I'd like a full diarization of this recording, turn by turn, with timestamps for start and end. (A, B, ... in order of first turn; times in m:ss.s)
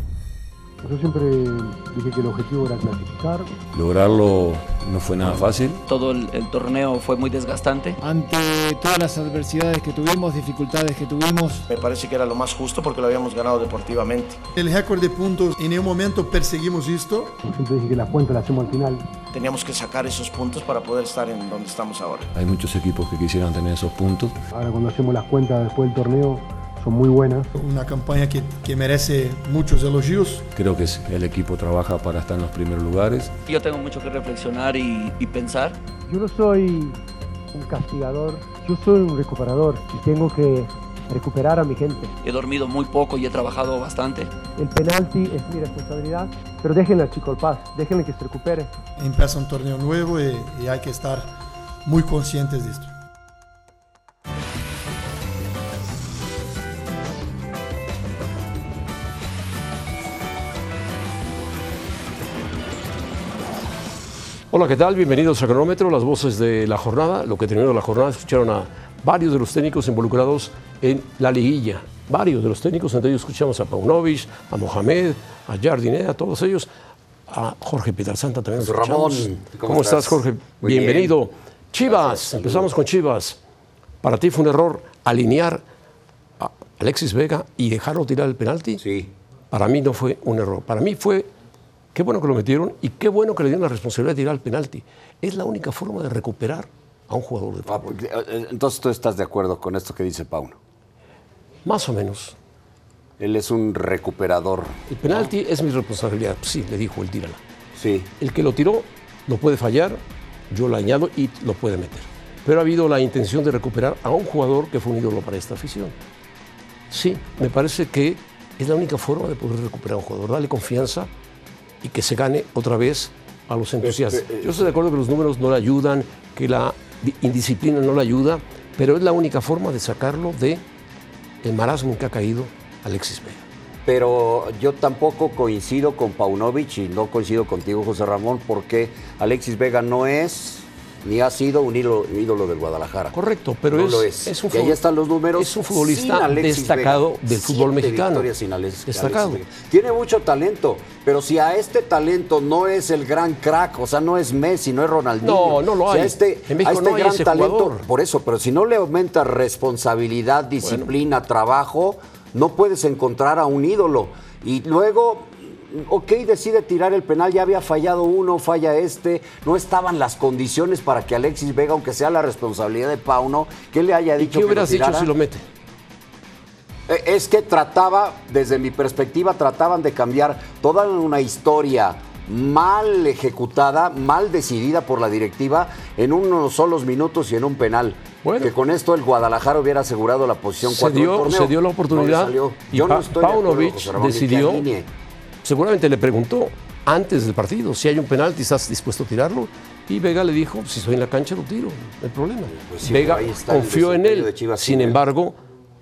0:00.8-0:03.6 A
0:03.7-0:05.8 B
0:05.9-0:08.0 C
0:08.0-0:11.6 D
0:11.7-0:14.4 E
0:14.6-0:17.4 F
0:17.4-0:19.1 A
0:19.3-0:22.3 E
0:22.3-0:24.4 B
0:24.5-0:27.5 A
0:27.5-0:30.5 F
0:30.5-0:33.4 B
0:33.5-0:35.8 C
0:36.0-0:37.0 A
0:37.5-0:42.2 A
0:42.2-0:44.3 C
0:44.5-0:48.7 A
0:49.0-0:51.3 F
0:51.8-0:52.9 F
1:04.5-1:16.7 G
1:17.3-1:23.4 G
1:18.6-1:21.2 H
1:21.9-1:22.7 H
1:24.0-1:25.6 G
1:26.4-1:28.8 G
1:28.8-1:29.1 H
1:29.5-1:31.3 G
1:31.9-1:38.0 G
1:37.6-1:40.6 H
1:41.6-1:42.4 G
1:43.2-1:45.3 H
1:44.9-1:47.4 G
1:47.7-1:48.1 H
1:48.2-1:50.0 G
1:50.5-1:55.9 G
1:56.9-2:01.1 G
2:01.8-2:10.6 G
2:03.8-2:04.7 H
2:11.4-2:13.4 G
2:13.8-2:23.1 H
2:23.1-2:24.8 G
2:23.7-2:55.1 H
2:25.3-2:28.3 G
2:28.9-2:29.4 G
2:35.2-2:37.8 G
2:40.6-2:40.9 G
2:54.2-2:55.4 G
2:56.9-3:14.9 H
3:08.2-3:08.5 G
3:10.6-3:14.7 G
3:15.4-3:25.4 G
3:22.5-3:25.0 H